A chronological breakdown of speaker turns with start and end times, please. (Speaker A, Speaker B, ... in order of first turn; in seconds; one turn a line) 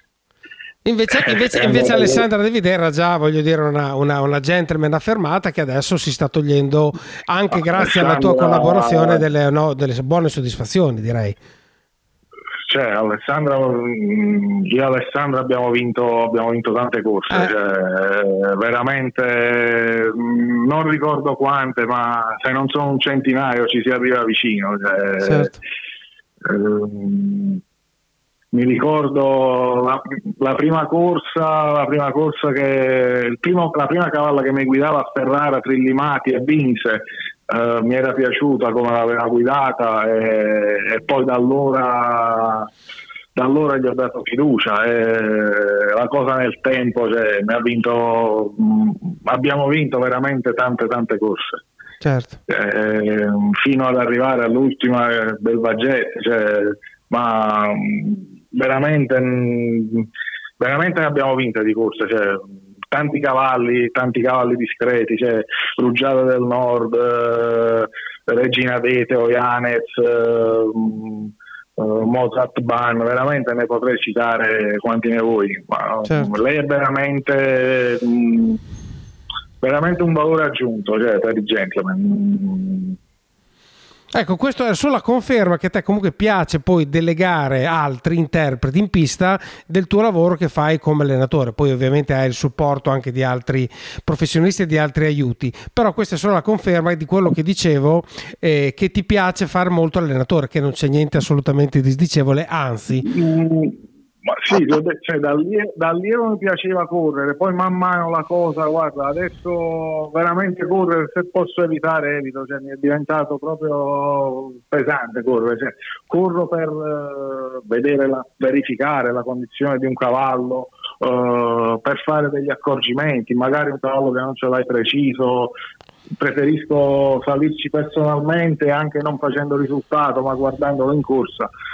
Speaker A: 0.8-11.4
Speaker B: 1.1-2.2
Speaker B: 7.6-9.2
Speaker B: 12.7-25.5
Speaker A: 25.2-25.5
Speaker B: 26.4-27.6
Speaker B: 28.5-42.7
Speaker B: 43.4-51.6
Speaker A: 52.0-52.4
Speaker B: 52.5-60.1
Speaker B: 60.6-78.6
Speaker B: 79.6-83.0
Speaker A: 84.1-103.0
Speaker B: 103.0-125.5
Speaker B: 126.2-131.5